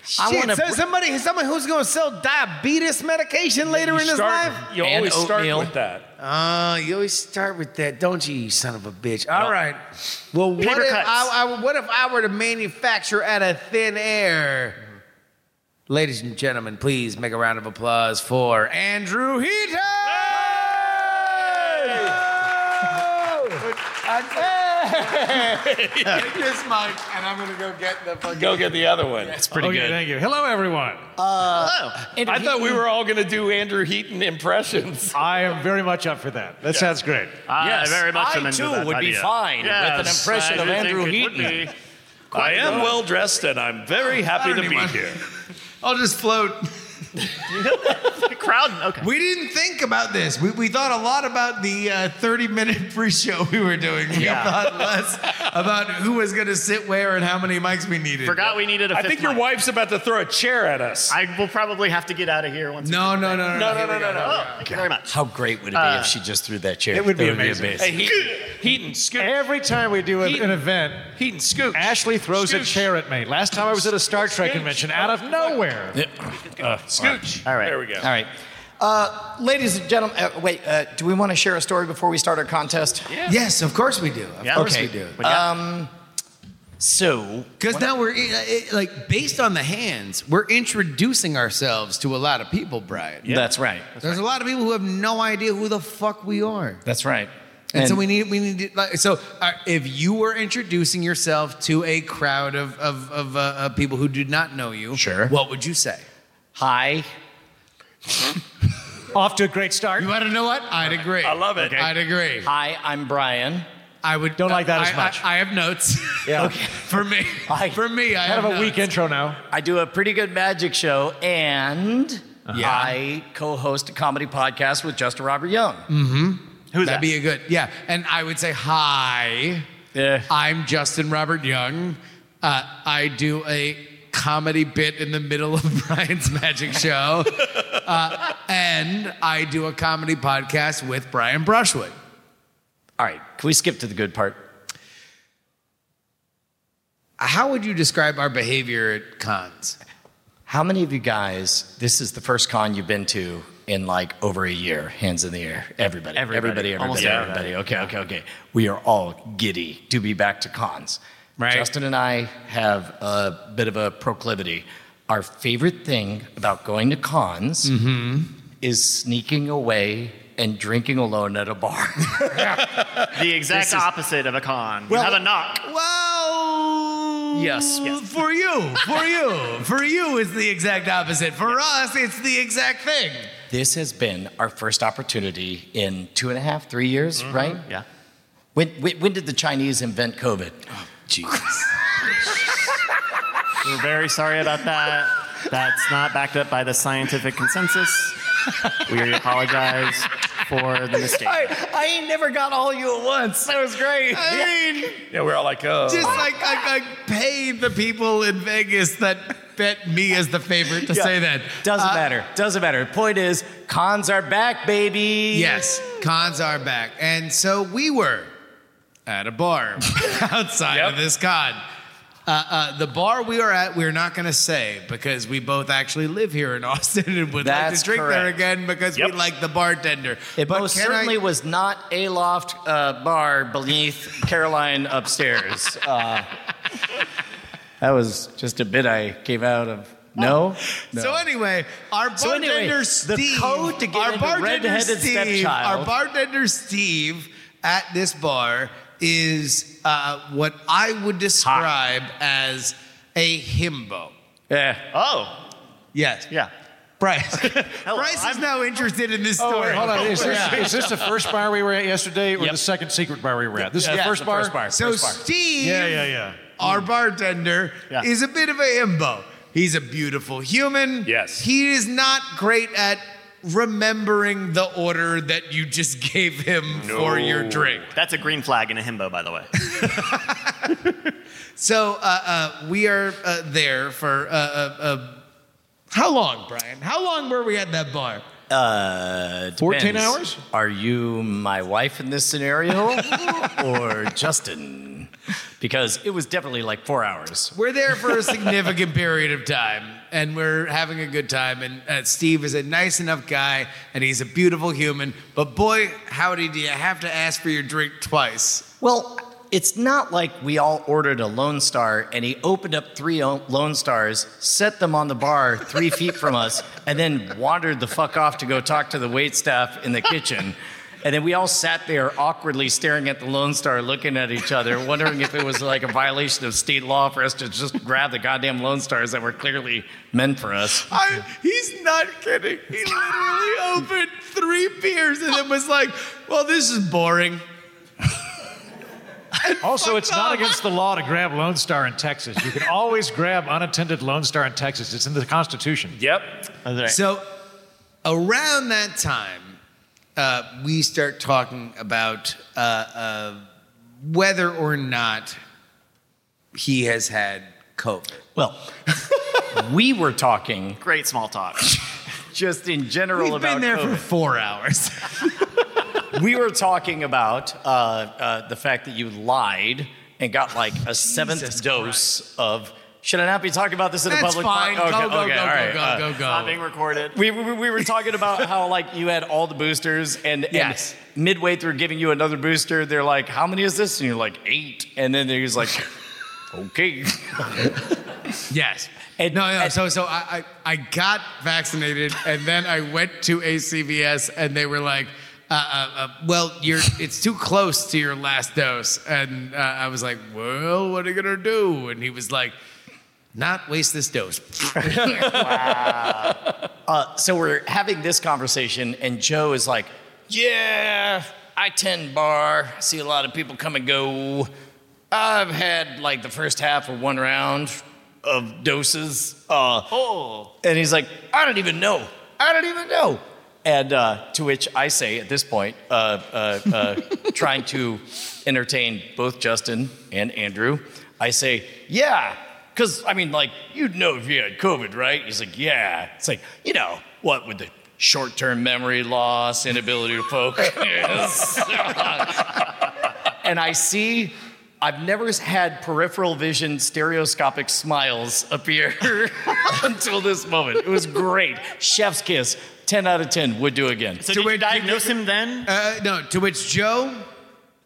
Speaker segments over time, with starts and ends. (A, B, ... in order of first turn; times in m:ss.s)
0:00.2-0:00.8 A
0:00.2-0:04.7 B
0:03.7-0:06.1 C
0:04.8-0:05.7 A
0:06.2-0:14.8 B
0:10.6-0:11.3 D
0:15.9-0:22.0 B
0:20.1-0:22.2 C
0:23.6-0:28.8 B
0:24.9-0:26.3 C
0:28.3-0:29.4 C
0:29.3-0:30.0 A
0:29.5-0:31.1 E
0:31.2-0:32.8 A
0:31.5-0:32.0 D
0:32.2-0:35.2 C
0:35.2-0:37.4 E
0:37.5-0:41.7 D
0:37.6-0:41.7 A
0:42.3-0:43.0 D
0:42.3-0:45.2 C
0:44.4-0:45.2 B
0:45.8-0:46.7 B
0:47.5-0:49.1 D
0:49.0-0:58.5 B
0:54.1-0:54.6 D
0:58.2-0:59.4 D
0:58.9-1:01.2 C
1:01.1-1:03.6 D
1:02.8-1:04.5 B
1:03.5-1:04.5 C
1:04.2-1:05.1 D
1:05.1-1:08.1 A
1:05.7-1:06.1 D
1:06.9-1:07.8 E
1:07.8-1:09.4 C
1:09.2-1:11.1 E
1:10.2-1:12.8 C
1:11.7-1:16.0 E
1:14.2-1:15.6 C
1:15.9-1:17.2 A
1:16.9-1:18.1 C
1:17.4-1:17.8 D
1:18.0-1:23.1 A
1:23.3-1:25.3 B
1:24.6-1:25.9 A
1:25.2-1:25.4 D
1:26.8-1:27.9 A
1:27.6-1:33.2 B
1:33.3-1:33.9 A
1:34.0-1:36.8 B
1:36.8-1:38.0 A
1:37.8-1:46.0 B
1:44.9-1:45.3 A
1:46.6-1:47.1 A
1:49.1-1:50.1 E
1:50.0-1:52.5 B
1:51.0-1:51.9 C
1:52.4-1:53.7 A
1:54.0-1:58.9 B
1:54.4-1:55.2 E
1:56.3-1:56.5 E
1:56.3-1:56.9 A
1:57.5-1:57.8 A
1:58.2-1:59.4 E
1:59.5-2:05.9 A
2:02.5-2:02.9 B
2:05.9-2:09.7 B
2:06.7-2:07.1 D
2:09.9-2:10.3 A
2:10.3-2:21.9 B
2:23.0-2:24.4 A
2:27.2-2:29.8 B
2:30.5-2:47.7 A
2:36.2-2:37.9 D
2:36.9-2:37.3 C
2:41.4-2:41.7 B
2:47.6-2:48.3 B
2:48.6-2:52.5 A
2:53.1-2:55.6 D
2:54.9-3:03.3 B
3:03.5-3:07.6 A
3:07.2-3:07.8 D
3:08.6-3:10.6 A
3:11.1-3:11.4 B
3:13.6-3:18.2 D
3:18.9-3:21.6 D
3:21.2-3:24.8 A
3:24.1-3:25.0 B
3:25.1-3:26.3 C
3:25.9-3:32.1 B
3:30.9-3:35.7 A
3:35.3-3:38.3 B
3:39.1-3:41.6 B
3:40.7-3:41.0 C
3:42.3-3:51.2 B
3:47.4-3:48.3 A
3:50.4-3:56.3 A
3:57.8-4:01.2 A
4:00.9-4:14.1 B
4:02.2-4:05.9 A
4:11.4-4:11.7 A
4:14.5-4:14.8 A
4:14.9-4:15.4 D
4:15.9-4:16.3 B
4:17.0-4:20.8 B
4:17.6-4:18.5 D
4:19.4-4:25.1 E
4:19.7-4:21.2 D
4:23.6-4:25.1 A
4:23.9-4:26.0 B
4:25.6-4:26.4 E
4:26.6-4:37.9 B
4:31.1-4:31.4 C
4:36.8-4:37.9 C
4:38.0-4:39.5 D
4:39.8-4:40.6 B
4:41.6-4:45.2 B
4:45.9-4:48.2 B
4:48.5-4:57.5 A
4:49.6-4:50.4 E
4:57.5-5:08.7 B
5:08.8-5:30.9 A
5:30.9-5:37.4 B
5:39.4-5:40.6 B
5:39.6-5:46.0 E
5:45.9-5:46.4 C
5:46.6-5:47.0 D
5:46.9-5:47.3 B
5:48.0-5:49.6 B
5:50.2-5:53.4 B
5:54.0-5:55.4 B
5:56.5-5:58.2 B
5:58.4-5:58.7 A
5:59.5-6:00.8 A
6:00.8-6:01.8 D
6:02.3-6:04.0 A
6:03.2-6:05.2 B
6:06.1-6:16.1 A
6:11.1-6:11.8 B
6:14.1-6:16.6 B
6:16.2-6:17.2 D
6:17.1-6:26.0 A
6:20.5-6:20.9 B
6:26.5-6:27.8 A
6:28.5-6:42.6 B
6:29.2-6:29.8 A
6:43.4-6:45.4 B
6:44.9-6:54.5 A
6:55.1-6:59.9 A
6:59.9-7:00.5 D
7:00.6-7:22.7 A
7:23.4-7:34.2 A
7:34.2-7:35.7 D
7:34.3-7:37.2 B